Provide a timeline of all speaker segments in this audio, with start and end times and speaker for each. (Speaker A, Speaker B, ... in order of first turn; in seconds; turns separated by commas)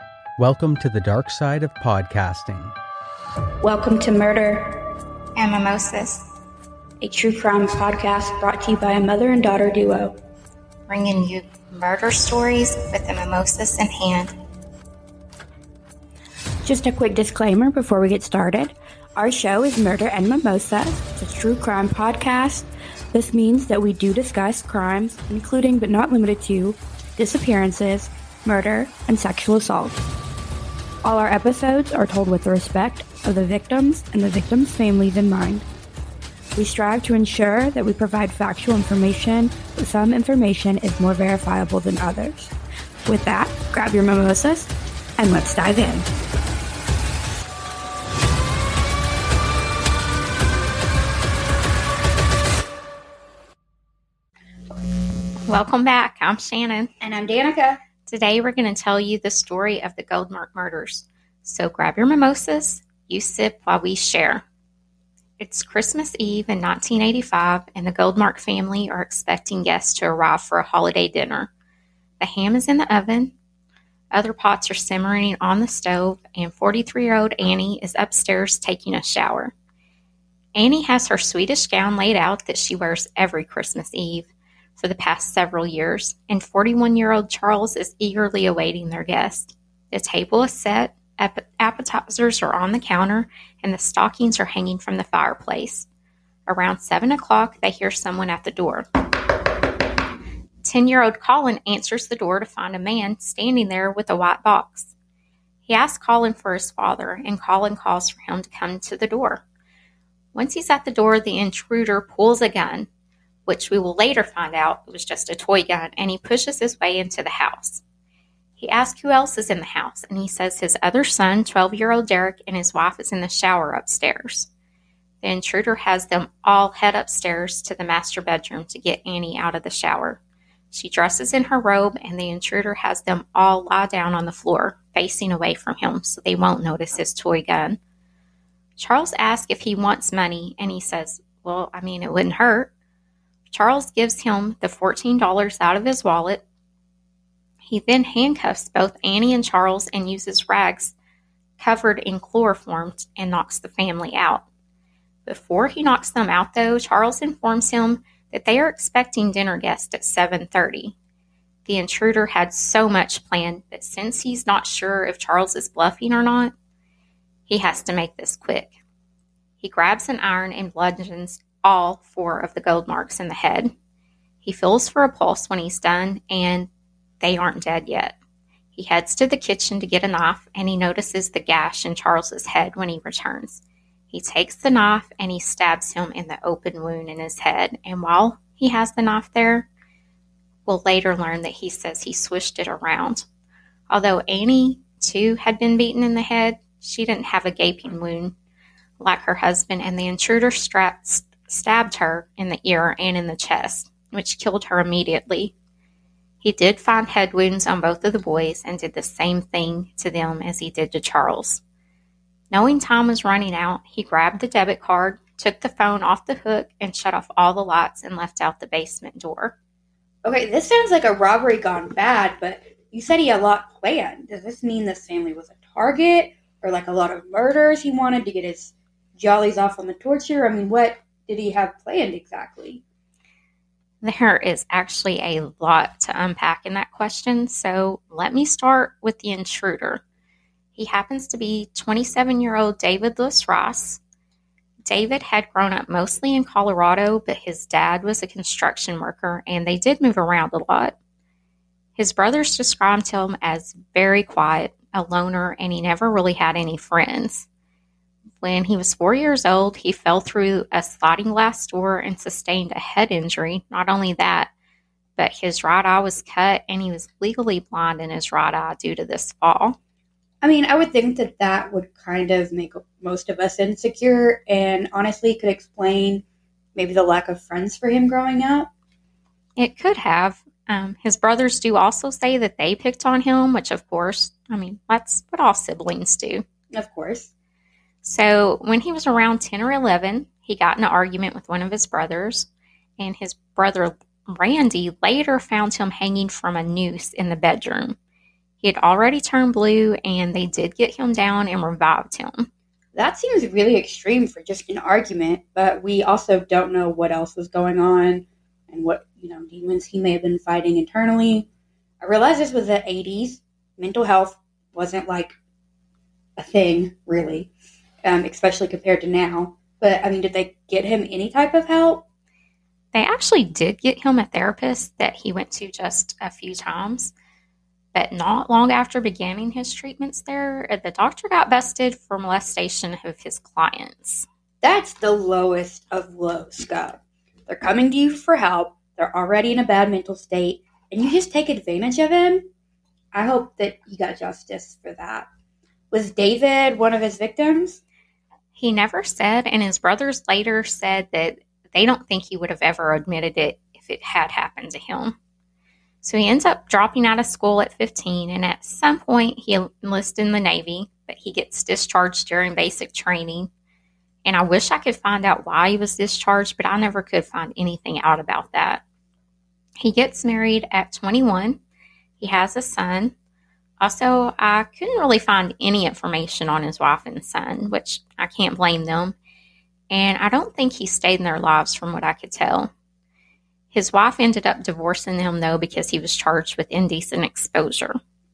Speaker A: 0.4-2.7, Speaker B: 3.6-4.7, Speaker C: 5.3-6.2, Speaker B: 7.0-10.1, Speaker C: 10.9-14.3, Speaker B: 16.6-30.0, Speaker B: 31.0-35.6, Speaker B: 36.5-42.5, Speaker B: 43.0-46.1, Speaker C: 55.5-56.9, Speaker B: 57.0-57.8, Speaker C: 58.0-64.4, Speaker C: 65.4-71.5, Speaker C: 72.2-73.3, Speaker C: 74.1-79.5, Speaker C: 80.5-95.9, Speaker C: 96.5-98.8, Speaker C: 100.6-104.9, Speaker C: 105.7-109.4, Speaker C: 110.3-112.9, Speaker C: 113.5-117.8, Speaker C: 118.6-124.5, Speaker C: 125.2-130.2, Speaker C: 130.7-137.8, Speaker C: 138.8-142.7, Speaker C: 143.5-146.4, Speaker C: 147.7-150.9, Speaker C: 151.6-154.4, Speaker C: 155.2-160.9, Speaker C: 161.7-166.5, Speaker C: 167.5-168.7, Speaker C: 169.6-173.7, Speaker C: 174.4-176.7, Speaker C: 177.2-178.2, Speaker C: 178.7-189.7, Speaker C: 190.7-193.2, Speaker C: 193.9-198.3, Speaker C: 199.0-205.5, Speaker C: 206.4-211.6, Speaker C: 212.5-219.5, Speaker B: 220.2-232.8, Speaker C: 234.0-240.0, Speaker C: 240.8-244.0, Speaker C: 244.8-250.9, Speaker C: 251.9-257.5, Speaker C: 258.4-264.5, Speaker C: 265.2-269.8, Speaker B: 270.4-276.2, Speaker B: 276.7-278.7, Speaker C: 279.6-286.4, Speaker B: 286.7-287.3, Speaker C: 288.0-298.0, Speaker C: 298.6-302.5, Speaker B: 302.9-311.5, Speaker B: 312.0-315.3, Speaker B: 316.4-317.5, Speaker B: 318.0-322.0, Speaker C: 322.9-327.1, Speaker C: 327.9-334.3, Speaker B: 334.6-342.5, Speaker B: 343.1-345.3, Speaker B: 345.9-347.8, Speaker C: 348.5-355.1, Speaker C: 356.0-363.5, Speaker C: 364.2-368.8, Speaker C: 369.8-371.6, Speaker C: 372.2-373.1, Speaker C: 373.8-379.1, Speaker C: 379.9-382.7, Speaker C: 383.7-388.0